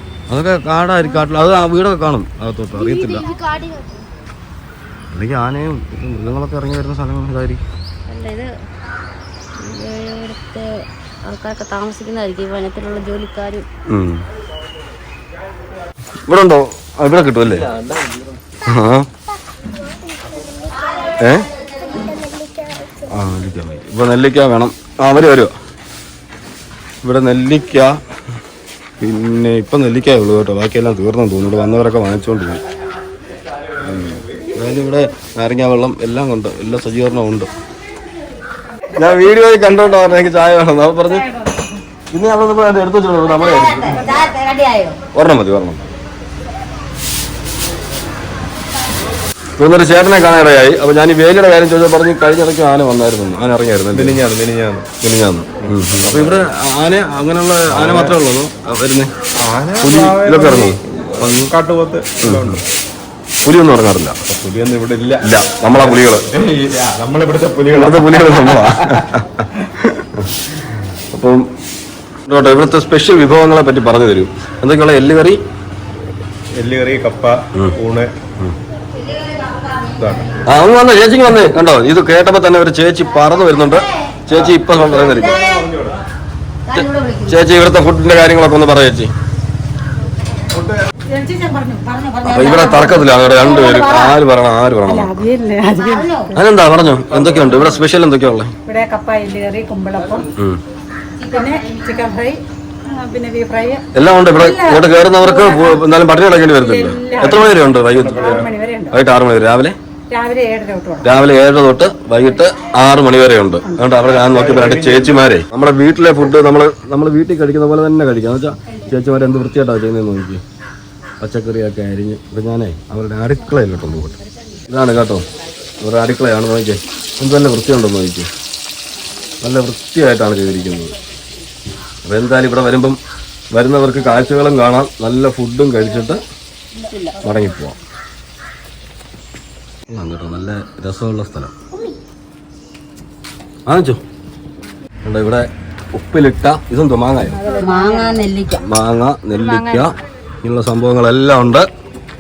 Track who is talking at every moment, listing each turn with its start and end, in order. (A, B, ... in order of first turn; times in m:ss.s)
0:00.3-0:03.3 A
0:02.8-0:04.0 B
0:05.1-0:07.6 A
0:08.1-0:08.5 B
0:09.6-0:13.7 B
0:13.9-0:14.2 A
0:16.3-0:17.7 A
0:18.6-0:19.1 A
0:19.9-0:20.4 C
0:20.0-0:21.1 B
0:21.2-0:21.5 A
0:21.8-0:23.0 B
0:22.0-0:22.5 C
0:23.1-0:25.5 A
0:27.0-0:28.0 A
0:29.0-0:32.6 A
0:33.8-0:37.5 A
0:38.9-0:41.3 A
0:42.1-0:44.2 A
0:43.6-0:45.0 C
0:45.1-0:45.9 A
0:49.6-0:54.2 A
0:53.9-0:54.9 D
0:55.0-0:59.1 A
0:55.7-0:56.4 D
0:57.7-0:58.2 D
0:59.4-1:02.6 D
0:59.8-1:01.5 A
1:02.2-1:02.6 A
1:03.4-1:04.2 A
1:04.3-1:09.0 D
1:05.2-1:06.3 A
1:07.7-1:10.3 A
1:11.1-1:11.5 A
1:12.2-1:15.4 A
1:16.6-1:18.1 D
1:20.0-1:20.3 D
1:20.4-1:25.6 A
1:26.7-1:29.1 A
1:26.7-1:27.3 C
1:31.1-1:32.0 E
1:31.9-1:34.2 C
1:32.2-1:35.3 A
1:34.9-1:36.3 E
1:35.8-1:36.3 C
1:36.3-1:38.5 A
1:38.7-1:40.3 E
1:40.4-1:40.6 A
1:41.3-1:43.8 E
1:43.9-1:49.8 A
1:44.4-1:45.8 E
1:46.6-1:47.6 E
1:48.0-1:48.5 D
1:48.2-1:48.9 E
1:50.1-1:51.0 E
1:51.0-2:00.4 A
1:54.1-1:55.2 D
2:01.2-2:05.2 A
2:05.8-2:08.3 A
2:09.4-2:10.9 A
2:12.0-2:13.0 A
2:13.5-2:16.2 A
2:17.2-2:17.8 A
2:19.9-2:21.5 A
2:23.6-2:24.0 A
2:25.0-2:27.4 A
2:27.4-2:28.3 E
2:27.6-2:28.6 C
2:28.6-2:31.7 A
2:29.5-2:29.8 E